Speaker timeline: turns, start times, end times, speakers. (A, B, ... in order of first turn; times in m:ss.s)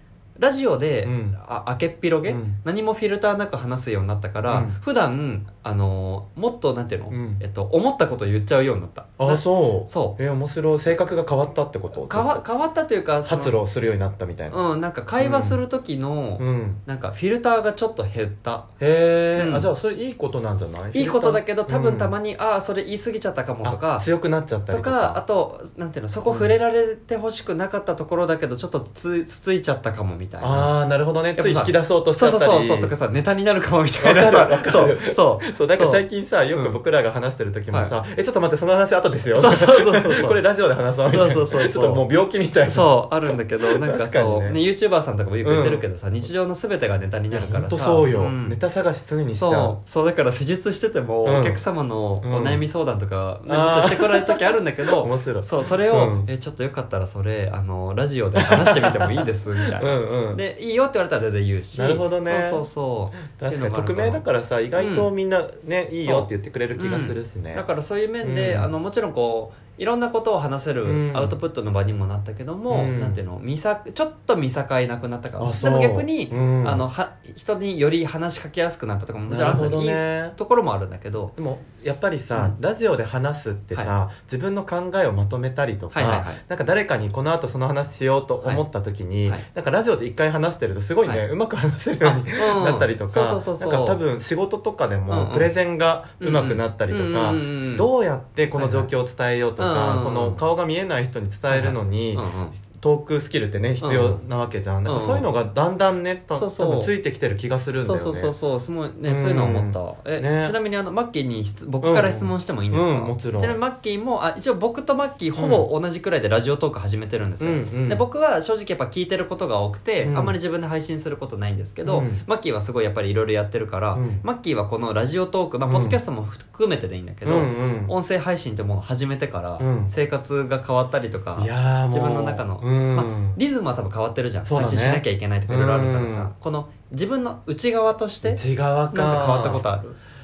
0:00.4-0:10.2 A
0:01.0-0:01.4 B
0:02.3-0:02.6 B
0:04.5-0:04.8 B
0:07.1-0:07.4 B
0:09.2-0:12.4 B
0:12.0-0:13.6 A
0:13.2-0:14.6 B
0:14.5-0:18.7 A
0:15.2-0:15.6 B
0:16.4-0:16.8 B
0:18.8-0:22.2 B
0:19.4-0:19.7 A
0:20.9-0:24.1 A
0:23.6-0:25.2 B
0:24.7-0:30.7 A
0:26.3-0:26.6 B
0:30.4-0:33.0 B
0:31.3-0:36.8 A
0:34.0-0:44.6 B
0:37.7-0:38.0 A
0:39.4-0:40.4 A
0:41.1-0:42.0 A
0:42.7-0:48.6 A
0:45.4-0:45.9 B
0:47.3-0:49.8 B
0:49.4-1:04.2 A
0:51.2-0:51.6 B
0:52.2-0:52.6 B
0:53.5-0:56.3 B
0:58.4-1:00.4 B
1:01.7-1:02.7 B
1:03.2-1:07.6 B
1:04.8-1:05.1 A
1:06.0-1:21.3 A
1:08.2-1:08.7 B
1:10.8-1:11.4 B
1:12.7-1:13.2 B
1:15.4-1:16.9 B
1:19.3-1:20.4 B
1:21.4-1:48.3 B
1:25.9-1:26.4 A
1:32.0-1:34.0 A
1:35.1-1:35.5 A
1:36.2-1:37.9 A
1:38.6-1:38.9 A
1:39.6-1:40.4 A
1:41.5-1:42.6 A
1:43.8-1:44.2 A
1:44.8-1:45.3 A
1:46.4-1:46.9 A
1:47.8-2:18.4 A
1:49.0-1:50.6 B
1:51.8-1:53.6 B
1:55.4-1:55.7 B
1:57.4-1:58.1 B
2:00.0-2:00.4 B
2:01.8-2:02.2 B
2:03.9-2:04.2 B
2:05.7-2:06.0 B
2:07.2-2:07.9 B
2:09.6-2:10.0 B
2:11.4-2:13.4 B
2:14.5-2:16.3 B
2:18.2-2:19.6 B
2:18.9-2:20.0 A